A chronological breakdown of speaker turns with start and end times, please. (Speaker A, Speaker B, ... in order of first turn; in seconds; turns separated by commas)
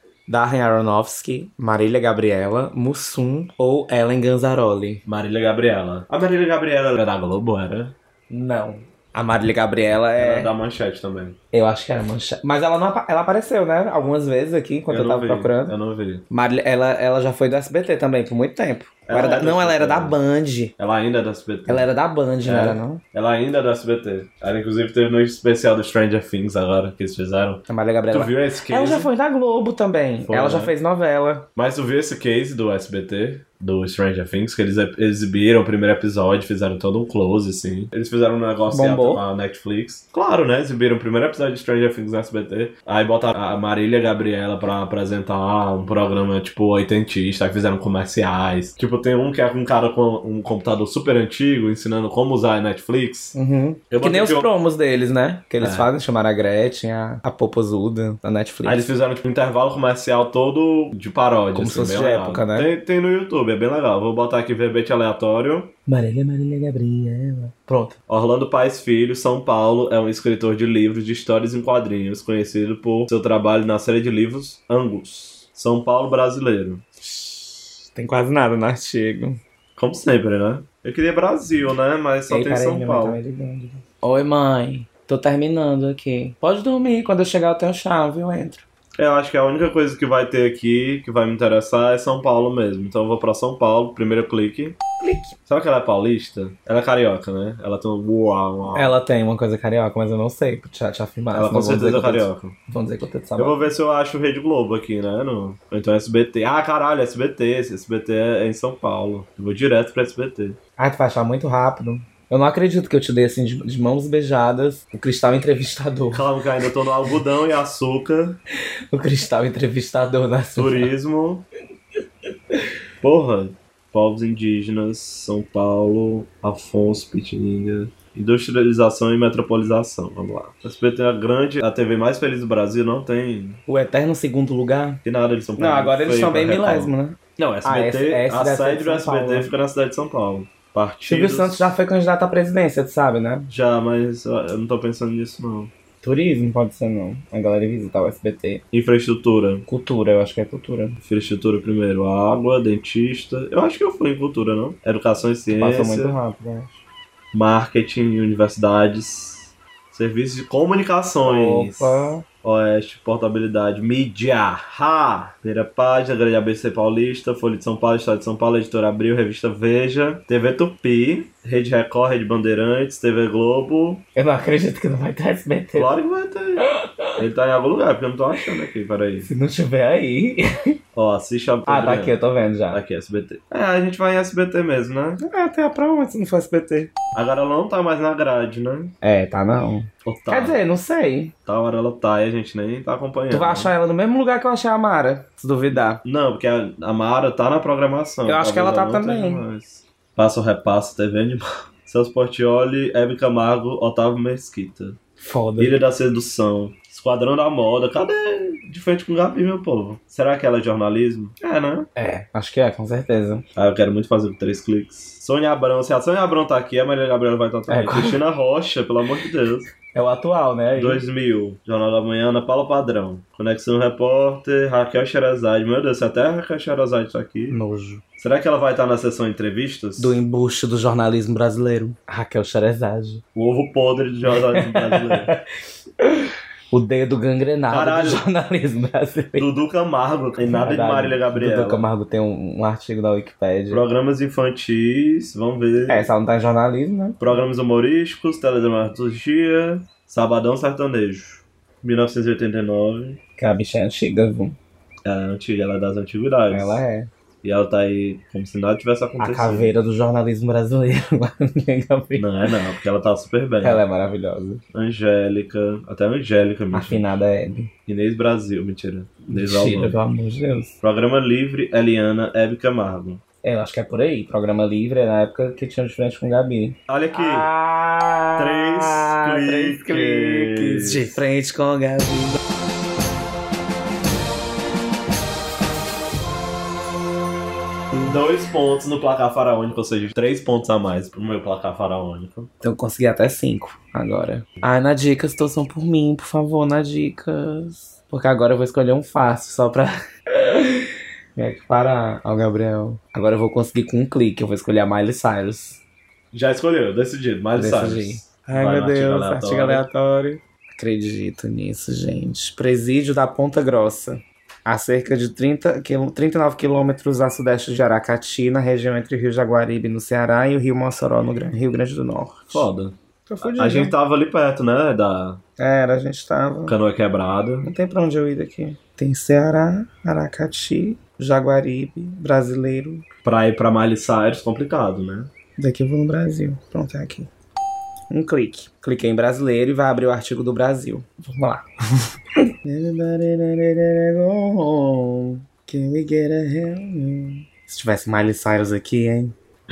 Speaker A: 0.3-5.0, Speaker B: 5.1-7.9, Speaker A: 8.3-10.5, Speaker B: 10.2-11.4, Speaker A: 11.5-15.7, Speaker B: 14.9-16.2, Speaker A: 16.3-20.7, Speaker B: 19.1-20.2, Speaker B: 20.8-21.9, Speaker A: 21.7-23.0, Speaker B: 22.4-29.1, Speaker A: 27.7-31.5, Speaker B: 30.3-30.7, Speaker B: 31.6-53.4, Speaker A: 38.7-39.2, Speaker A: 53.3-58.9, Speaker B: 53.9-54.5, Speaker B: 55.6-55.9, Speaker B: 58.6-65.7, Speaker A: 61.5-62.7, Speaker A: 65.9-68.0, Speaker B: 68.1-76.9, Speaker A: 77.0-77.4, Speaker A: 77.9-79.4, Speaker B: 79.8-83.2, Speaker A: 82.3-88.7, Speaker B: 89.0-94.8, Speaker A: 95.0-95.4, Speaker B: 95.5-99.0, Speaker A: 98.7-103.7, Speaker B: 101.3-102.6, Speaker B: 103.4-110.6, Speaker A: 110.8-116.3, Speaker B: 116.1-118.4, Speaker A: 118.9-120.9, Speaker B: 120.6-121.4, Speaker B: 123.0-133.6, Speaker A: 133.7-135.0, Speaker B: 135.1-141.7, Speaker A: 135.6-139.5, Speaker A: 141.1-143.5, Speaker B: 143.5-145.7, Speaker A: 146.0-148.6, Speaker B: 148.7-149.7, Speaker A: 149.7-151.0, Speaker B: 151.0-156.2, Speaker A: 155.5-156.8, Speaker B: 157.3-174.1, Speaker A: 161.2-162.2, Speaker A: 174.1-175.9, Speaker B: 175.7-176.7, Speaker A: 176.6-177.2, Speaker B: 177.2-179.3, Speaker A: 179.2-180.8, Speaker B: 180.9-182.2, Speaker A: 181.7-182.8, Speaker B: 182.7-185.2, Speaker A: 185.2-186.9, Speaker B: 187.1-188.9, Speaker A: 189.0-191.3, Speaker B: 190.0-190.6, Speaker B: 191.4-193.7, Speaker A: 193.3-196.0, Speaker B: 196.0-205.0, Speaker A: 198.3-199.4, Speaker A: 205.2-205.7, Speaker B: 205.6-211.9, Speaker A: 211.9-213.4, Speaker B: 213.6-219.7, Speaker A: 217.7-218.2, Speaker A: 219.9-221.0, Speaker B: 220.8-227.6, Speaker A: 227.5-228.0, Speaker B: 228.2-230.2, Speaker A: 230.0-233.2, Speaker B: 233.3-235.4, Speaker A: 234.3-235.4, Speaker A: 236.0-239.5, Speaker B: 237.7-238.2, Speaker B: 239.4-241.8, Speaker A: 240.4-243.8, Speaker B: 243.7-246.1, Speaker A: 245.9-247.4, Speaker B: 247.2-253.2, Speaker A: 253.4-254.6, Speaker B: 255.1-256.8, Speaker A: 256.5-257.1, Speaker B: 257.4-259.7, Speaker A: 259.2-262.5, Speaker B: 262.2-263.8, Speaker A: 263.6-264.6, Speaker B: 264.7-267.1, Speaker A: 266.7-267.7, Speaker B: 267.9-270.0, Speaker A: 269.3-270.7, Speaker B: 270.8-273.2, Speaker A: 273.4-282.4, Speaker B: 276.9-277.5, Speaker B: 278.4-281.1, Speaker B: 288.0-292.5, Speaker A: 292.6-305.8, Speaker B: 306.3-309.9, Speaker A: 307.5-322.7, Speaker B: 322.5-325.4, Speaker A: 323.3-323.9, Speaker A: 325.6-326.8, Speaker B: 326.7-327.7, Speaker A: 327.6-333.1, Speaker B: 333.2-335.3, Speaker A: 335.6-337.3, Speaker A: 338.1-349.4